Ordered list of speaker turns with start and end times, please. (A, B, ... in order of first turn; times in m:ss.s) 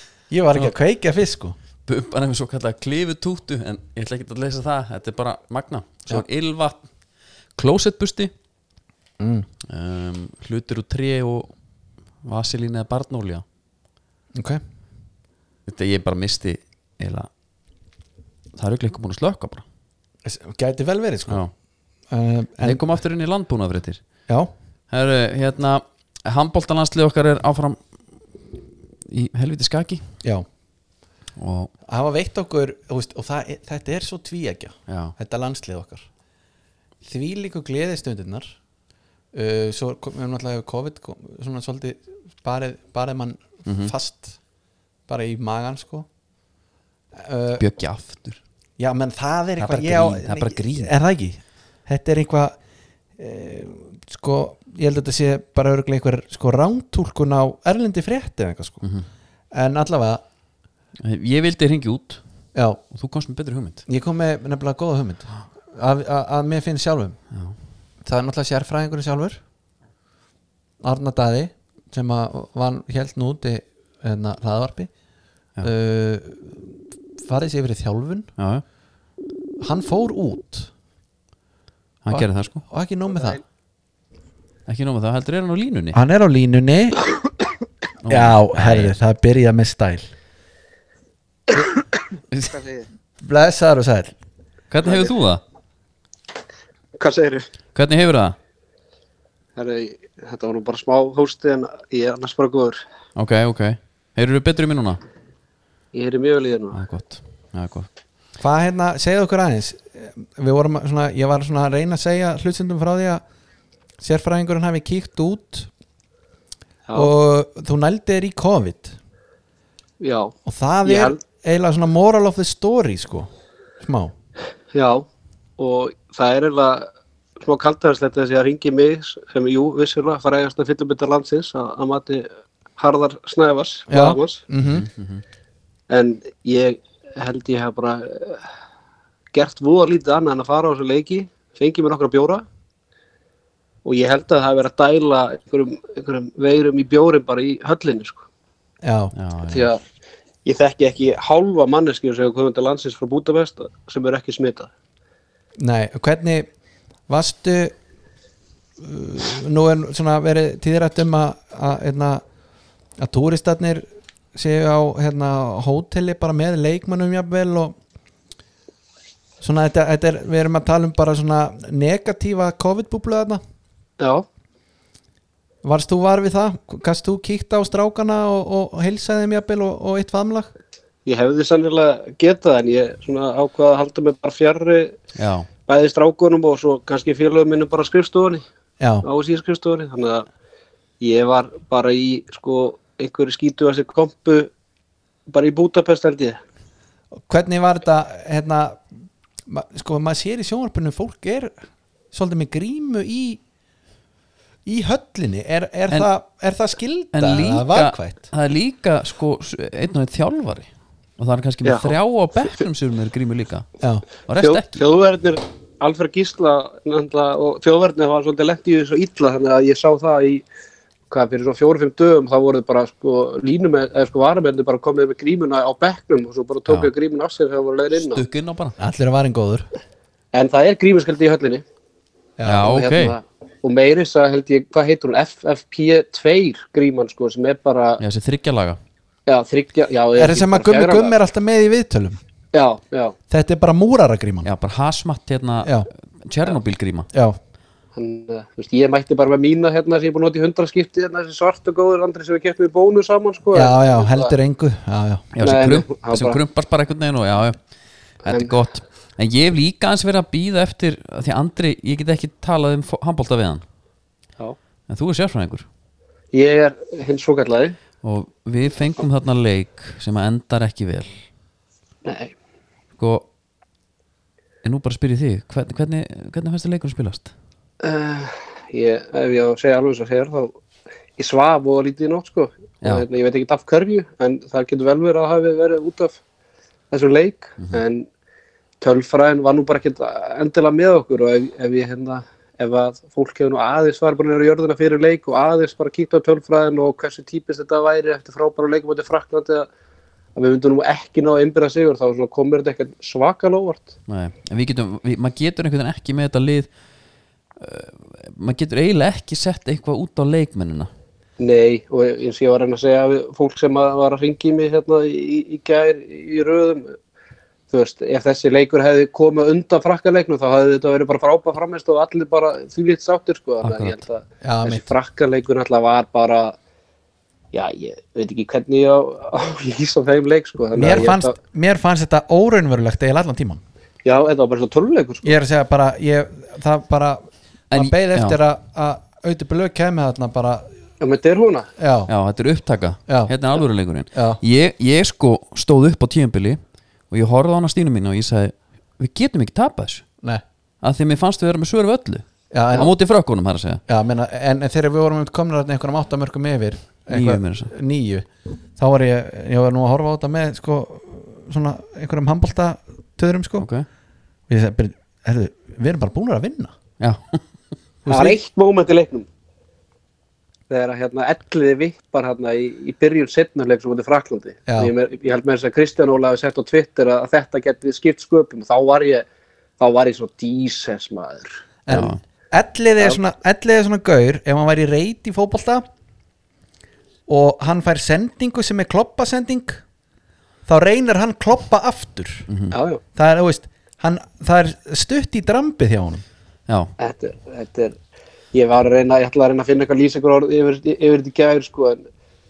0:00.3-0:01.6 A
0:01.8-0:06.8 B
0:07.6-0:08.3 B
0:09.2-0:09.5 A
0:09.6-0:11.5 B
0:12.2-0:13.4 B
0:14.3-0:14.6 A
0:15.6-0:17.3 B
0:18.6-0:19.6 B
0:20.2-0:21.4 A
0:22.1-0:22.8 A
0:22.6-0:24.0 B
0:24.9-0:27.8 B
0:29.1-0:30.0 B
0:31.4-0:31.7 B
0:31.8-0:36.1 A
0:34.9-0:35.1 B
0:37.0-0:38.6 A
0:39.3-0:44.4 A
0:43.6-0:43.9 B
0:45.1-0:46.1 A
0:47.1-0:47.6 A
0:47.6-0:48.4 B
0:48.8-0:52.6 A
0:49.6-0:50.9 B
0:53.2-0:58.8 A
0:59.5-1:00.2 A
1:01.0-1:02.2 B
1:02.5-1:02.8 A
1:02.9-1:03.8 B
1:03.9-1:07.2 A
1:08.0-1:09.4 A
1:10.8-1:14.9 A
1:15.6-1:18.3 A
1:18.4-1:18.6 B
1:19.6-1:20.7 A
1:22.0-1:22.6 B
1:22.1-1:23.4 A
1:24.7-1:26.0 B
1:25.9-1:27.1 A
1:28.0-1:28.9 B
1:28.1-1:30.1 A
1:32.3-1:32.6 B
1:32.5-1:32.8 C
1:33.2-1:34.1 A
1:34.7-1:35.4 B
1:34.8-1:35.1 C
1:37.0-1:37.5 C
1:37.7-1:38.4 B
1:39.6-1:42.8 C
1:43.2-1:45.0 B
1:45.9-1:46.8 C
1:46.7-1:47.9 B
1:48.4-1:53.2 A
1:54.0-1:55.7 A
1:56.9-1:59.0 A
2:00.0-2:01.2 C
2:00.4-2:03.3 A
2:03.8-2:04.1 A
2:04.7-2:05.0 C
2:05.6-2:14.4 C
2:13.9-2:14.9 A
2:14.6-2:15.2 B
2:15.9-2:18.5 C
2:19.3-2:22.4 C
2:23.8-2:28.2 C
2:28.8-2:29.1 A
2:29.1-2:29.7 B
2:29.5-2:29.8 C
2:30.4-2:34.7 C
2:35.6-2:36.5 A
2:37.1-2:37.7 A
2:38.8-2:42.2 A
2:43.0-2:47.8 A
2:49.4-2:53.4 A
2:54.0-2:54.2 C
2:55.6-3:00.5 A
3:01.0-3:05.0 C
3:05.2-3:05.5 B
3:05.6-3:08.4 C
3:08.8-3:09.0 A
3:09.0-3:10.3 C
3:11.0-3:14.5 C
3:15.3-3:16.4 C
3:17.3-3:18.8 A
3:19.4-3:21.5 A
3:22.1-3:23.4 A
3:24.6-3:28.2 A
3:27.1-3:33.6 B
3:31.6-3:31.9 C
3:33.8-3:34.0 A
3:34.2-3:34.8 B
3:34.4-3:40.4 C
3:41.1-3:48.2 C
3:47.9-3:48.8 B
3:48.8-3:49.7 A
3:50.3-3:51.6 C
3:52.4-3:52.7 A
3:52.4-3:53.2 B
3:52.6-3:58.0 C
3:58.0-3:58.8 B
3:59.3-4:01.1 C
4:00.2-4:02.2 A
4:02.5-4:03.2 C
4:03.3-4:04.5 A
4:04.4-4:07.1 B
4:05.6-4:05.9 A
4:07.1-4:07.4 A
4:07.9-4:14.3 C
4:13.5-4:15.3 A
4:15.3-4:17.6 B
4:15.4-4:16.4 C
4:18.2-4:23.6 B
4:18.3-4:18.5 C
4:24.9-4:25.6 B
4:26.3-4:27.8 C
4:28.0-4:31.2 B
4:32.0-4:32.3 C
4:33.0-4:33.2 B
4:34.6-4:37.3 B
4:37.8-4:40.5 C
4:41.2-4:46.2 C
4:46.9-4:48.1 C
4:48.8-4:59.7 C
5:00.4-5:03.9 C
5:04.1-5:06.7 B
5:07.6-5:10.9 B
5:11.4-5:17.0 C
5:17.7-5:26.5 C
5:23.6-5:24.0 B
5:24.4-5:24.9 A
5:27.5-5:31.3 C
5:30.7-5:33.6 A
5:34.0-5:35.4 C
5:35.2-5:40.7 A
5:37.7-5:38.4 B
5:41.0-5:41.7 C
5:41.8-5:42.1 A
5:42.1-5:50.0 B
5:43.1-5:43.3 A
5:44.1-5:44.4 A
5:50.8-5:53.8 B
5:52.5-5:52.9 A
5:53.9-6:03.7 A
5:57.1-5:57.7 B
6:03.6-6:03.8 B
6:04.5-6:06.7 A
6:07.0-6:07.4 B
6:08.0-6:08.4 A
6:08.1-6:09.3 C
6:10.7-6:19.2 C
6:19.8-6:22.0 C
6:21.8-6:25.8 A
6:21.9-6:22.2 B
6:27.3-6:29.8 A
6:30.6-6:32.5 A
6:32.5-6:32.8 B
6:32.7-6:33.0 C
6:33.1-6:36.2 A
6:37.0-6:38.0 C
6:38.5-6:42.0 C